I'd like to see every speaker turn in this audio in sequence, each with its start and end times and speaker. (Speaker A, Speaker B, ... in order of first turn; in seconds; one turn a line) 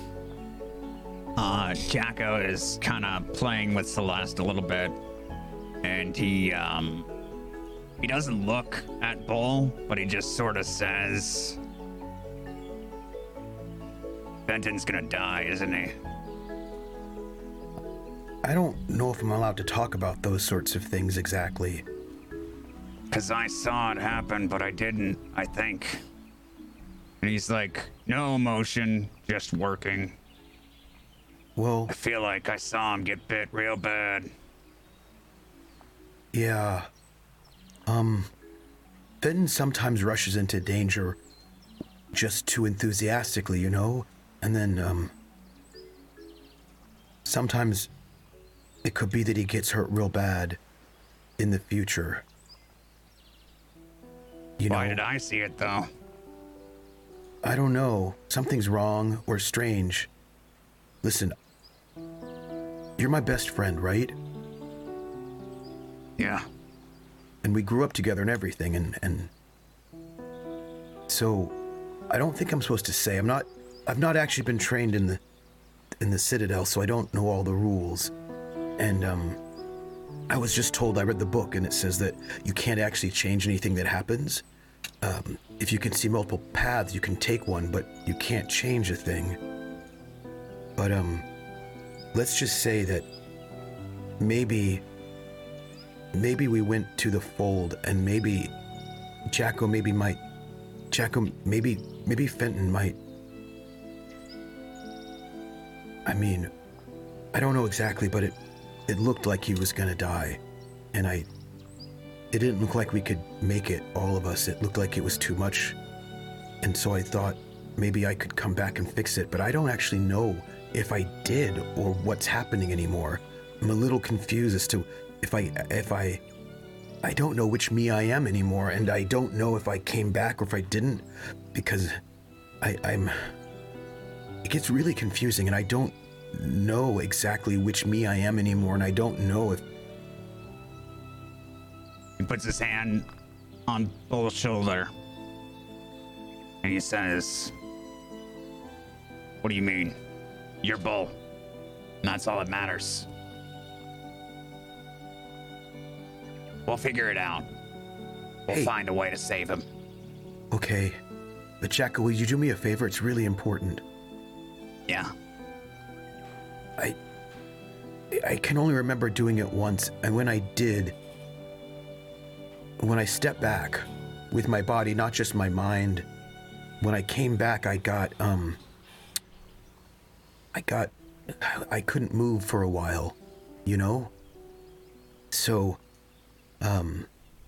Speaker A: 1.4-5.0
Speaker A: 5.8-7.1
Speaker A: 8.0-11.6
Speaker A: 14.5-15.9
Speaker B: 18.4-21.9
Speaker A: 23.1-26.0
Speaker A: 27.2-30.1
Speaker B: 31.6-31.9
Speaker A: 31.9-34.3
Speaker B: 36.3-36.9
Speaker B: 37.9-38.3
Speaker B: 39.2-41.2
Speaker B: 42.1-45.1
Speaker B: 47.2-47.9
Speaker B: 48.8-50.6
Speaker B: 51.4-52.2
Speaker B: 54.6-55.0
Speaker A: 54.7-55.9
Speaker B: 57.4-60.1
Speaker B: 61.0-61.4
Speaker B: 63.0-64.2
Speaker A: 66.2-66.5
Speaker B: 67.4-69.3
Speaker B: 71.1-71.5
Speaker B: 72.1-75.2
Speaker B: 76.0-78.1
Speaker B: 78.8-79.4
Speaker B: 80.3-84.4
Speaker B: 85.0-89.4
Speaker B: 90.8-91.2
Speaker B: 92.1-93.1
Speaker B: 94.2-94.8
Speaker B: 96.1-98.5
Speaker B: 99.3-100.2
Speaker B: 100.9-103.0
Speaker B: 106.0-106.5
Speaker B: 107.3-108.4
Speaker B: 108.9-110.4
Speaker B: 110.9-111.3
Speaker B: 112.3-115.8
Speaker B: 116.6-126.2
Speaker B: 127.0-132.0
Speaker B: 132.6-133.3
Speaker B: 134.4-139.6
Speaker A: 142.2-143.1
Speaker A: 143.7-144.9
Speaker A: 146.6-147.5
Speaker A: 149.4-150.0
Speaker A: 150.6-151.2
Speaker A: 152.0-153.1
Speaker A: 156.7-157.5
Speaker A: 158.5-159.6
Speaker B: 160.5-161.0
Speaker B: 161.6-163.8
Speaker B: 168.1-171.0
Speaker B: 172.8-176.1
Speaker B: 176.8-178.6
Speaker B: 180.5-184.1
Speaker B: 185.3-185.8
Speaker B: 186.6-187.1